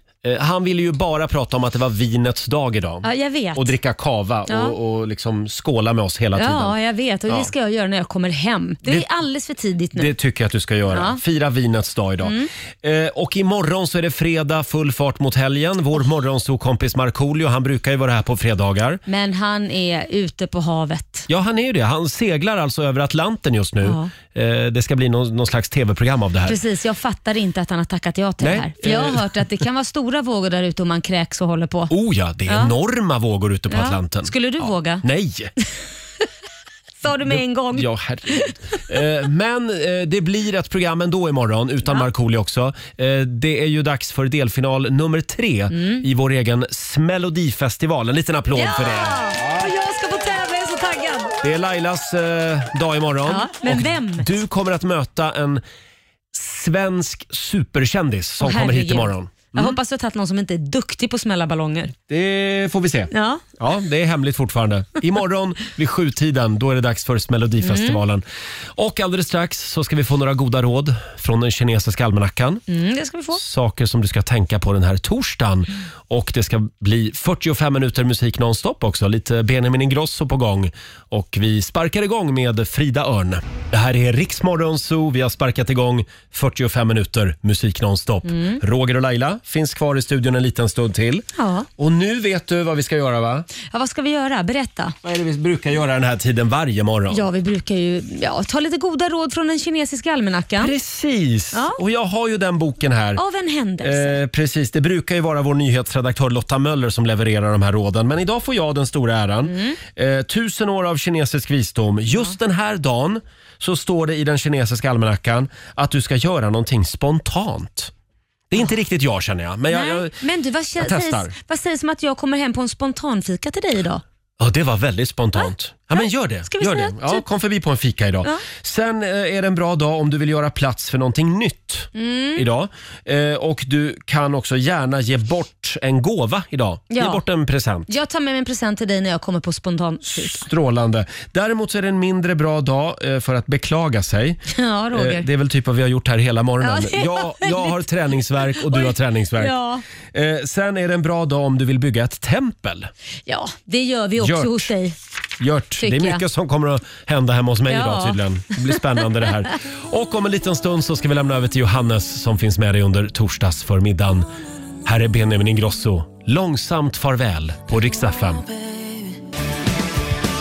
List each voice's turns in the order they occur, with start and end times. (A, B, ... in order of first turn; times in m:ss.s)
0:00.2-0:06.8 A
0:03.0-0:03.7 B
0:04.5-0:04.8 B
0:06.3-0:10.1 B
0:07.3-0:07.5 A
0:09.9-0:19.0 A
0:10.9-0:11.2 B
0:12.2-0:12.5 B
0:19.1-0:21.3 B
0:21.3-0:26.6 A
0:23.8-0:24.1 B
0:26.4-0:31.9 B
0:28.4-0:29.4 A
0:31.9-0:35.5 A
0:32.5-0:32.7 B
0:33.7-0:35.0 B
0:37.0-0:38.5 B
0:37.1-0:49.7 A
0:45.7-0:46.0 B
0:48.5-0:51.4 B
0:51.4-0:55.6 A
0:53.2-0:54.3 B
0:56.3-0:59.8 A
0:58.4-1:01.9 B
1:02.1-1:08.2 A
1:03.1-1:03.4 B
1:07.6-1:08.0 B
1:08.8-1:12.6 A
1:12.7-1:13.4 B
1:13.3-1:31.2 A
1:28.2-1:28.6 B
1:31.3-1:31.7 B
1:31.8-1:33.5 A
1:33.7-1:34.9 B
1:35.0-1:37.2 A
1:37.1-1:40.7 B
1:40.6-1:43.2 A
1:41.5-1:41.8 B
1:43.2-1:44.2 B
1:43.8-1:57.9 A
1:49.4-1:49.8 B
1:58.5-2:00.2 A
1:59.7-2:04.0 B
2:00.8-2:01.3 A
2:04.4-2:17.9 A
2:06.4-2:07.2 B
2:11.9-2:12.4 B
2:16.9-2:17.2 B
2:17.9-2:20.4 B
2:20.0-2:24.4 A
2:24.5-2:25.3 B
2:24.9-2:29.5 A
2:26.6-2:27.8 B
2:28.5-2:29.8 B
2:30.1-2:32.9 A
2:33.3-2:34.9 B
2:34.2-2:34.7 A
2:35.4-2:44.3 A
2:35.8-2:36.2 B
2:37.7-2:38.2 B
2:44.8-2:48.4 A